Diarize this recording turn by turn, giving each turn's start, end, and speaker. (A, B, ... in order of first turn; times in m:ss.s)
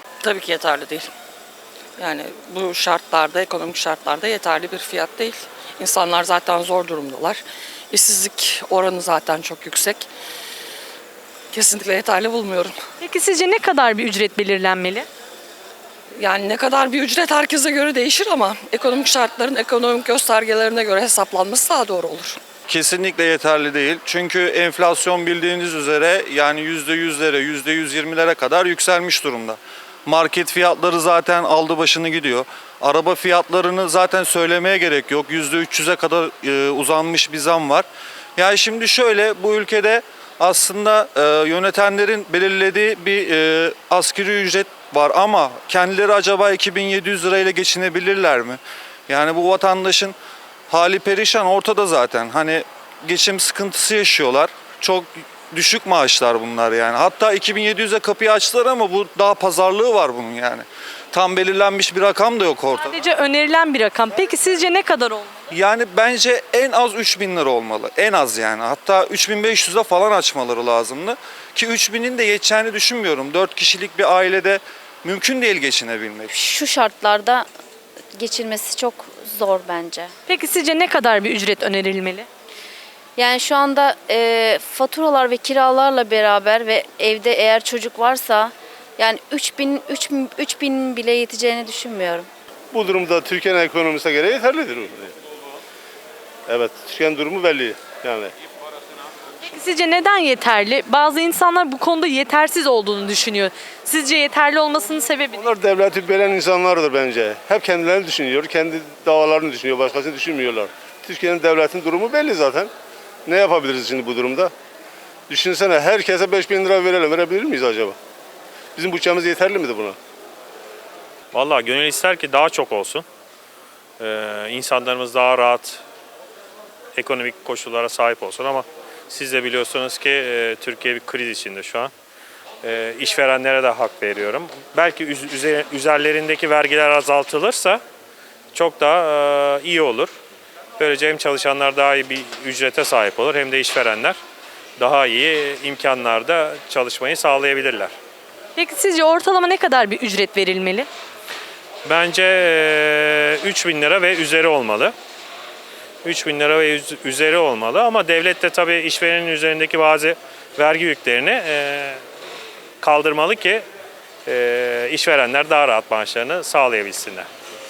0:00.2-0:01.1 A
0:02.0-0:10.1 A
0:11.5-0:12.8 A
0:13.0-0:15.1 B
0:16.2-0:22.4 A
0:22.7-0:50.1 C
0:50.7-1:03.0 C
1:02.8-1:05.4 B
1:05.5-1:16.3 C
1:16.3-1:17.4 D
1:18.1-1:20.1 D
1:20.3-1:22.2 B
1:23.2-1:32.3 D
1:32.7-1:35.1 E
1:36.5-1:38.3 E
1:39.4-1:45.4 B
1:45.3-1:52.7 E
1:53.2-1:54.5 E
1:55.3-1:58.0 E
1:58.8-2:00.0 E
2:01.3-2:03.0 F
2:04.0-2:05.8 F
2:06.9-2:11.9 F
2:12.6-2:17.8 F
2:18.5-2:20.1 F
2:20.8-2:24.2 F
2:24.8-2:27.9 F
2:28.6-2:30.9 B
2:31.8-2:34.9 F
2:36.0-2:42.0 F
2:42.8-2:43.6 F
2:44.2-2:47.3 F